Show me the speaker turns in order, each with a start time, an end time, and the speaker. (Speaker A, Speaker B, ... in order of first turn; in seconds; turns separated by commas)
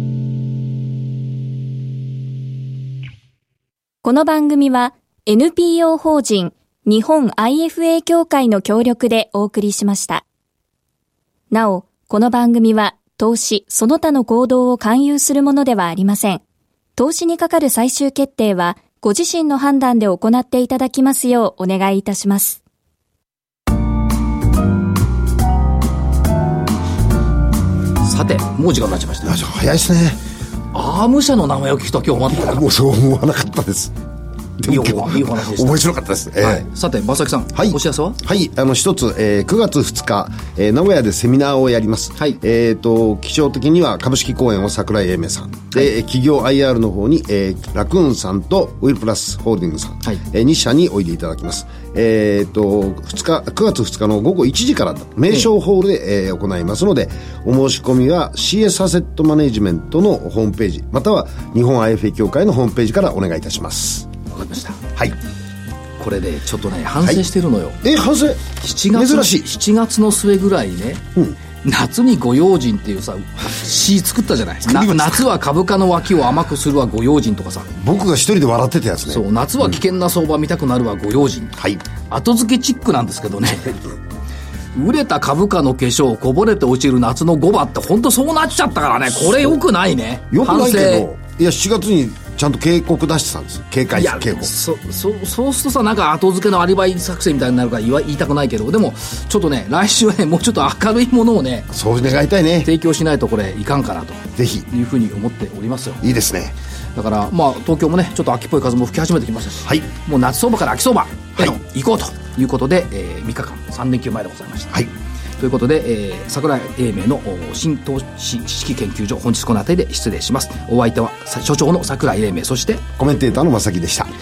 Speaker A: 4.0-10.2, Speaker A: 11.5-16.4, Speaker A: 17.0-22.6, Speaker B: 28.0-29.4, Speaker C: 29.2-30.2, Speaker B: 30.7-32.6, Speaker C: 32.3-33.9, Speaker C: 34.6-36.7, Speaker B: 34.6-35.9, Speaker B: 36.4-38.2, Speaker C: 37.5-64.1, Speaker B: 64.3-64.8, Speaker B: 66.0-67.8, Speaker C: 67.8-69.5, Speaker B: 68.6-71.0, Speaker B: 71.6-77.7, Speaker C: 74.7-75.2, Speaker C: 77.7-79.2, Speaker B: 79.1-83.8, Speaker C: 81.5-81.8, Speaker B: 84.7-91.1, Speaker C: 90.3-94.5, Speaker B: 93.9-101.7, Speaker C: 101.7-102.7, Speaker B: 102.6-106.0, Speaker C: 104.4-104.7, Speaker C: 106.0-106.5, Speaker B: 106.9-114.9, Speaker B: 115.4-122.8, Speaker C: 123.0-124.1